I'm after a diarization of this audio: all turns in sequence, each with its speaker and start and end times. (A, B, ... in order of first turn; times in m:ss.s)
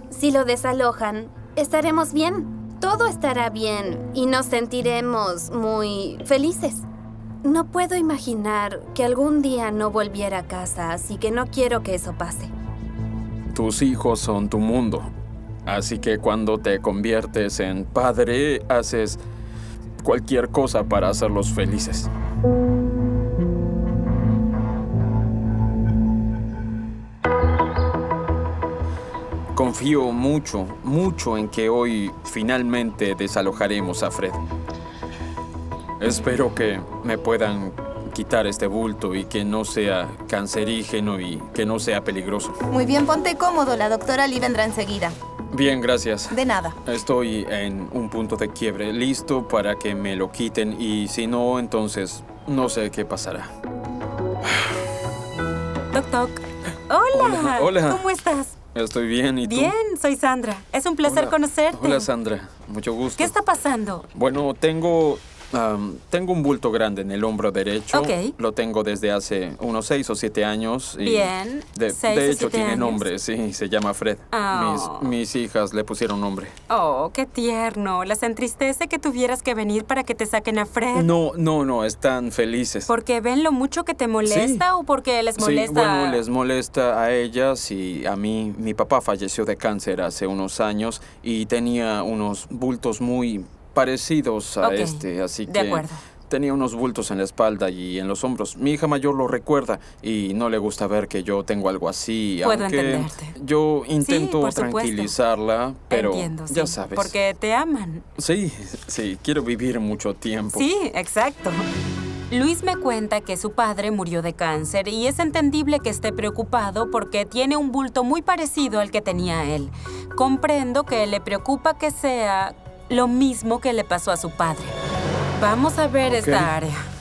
0:00.1-0:06.8 A
0:07.4-0:12.5 A
0:13.5-0:15.1 B
0:15.7-0:19.2 B
0:20.0-0:22.1 B
0:29.5-0:34.4 B
0:36.0-0:42.6 B
0:42.7-0:45.2 C
0:45.5-0:53.5 B
0:46.3-0:46.8 C
0:55.9-0:58.6 D
0:57.1-0:58.0 B
0:58.7-0:59.8 B
0:59.4-1:02.1 D
1:01.0-1:03.3 B
1:03.2-1:04.1 D
1:04.1-1:16.5 B
1:07.9-1:08.3 D
1:11.0-1:13.0 D
1:14.3-1:15.1 D
1:16.7-1:21.1 D
1:20.9-1:22.9 B
1:22.9-1:26.2 D
1:24.2-1:24.7 B
1:25.4-1:47.1 B
1:34.6-1:36.0 D
1:42.4-1:43.3 D
1:44.0-1:45.2 D
1:45.9-1:48.0 D
1:48.2-1:50.7 B
1:50.5-1:51.6 D
1:52.3-2:04.7 D
2:05.4-2:06.8 D
2:06.0-2:06.5 B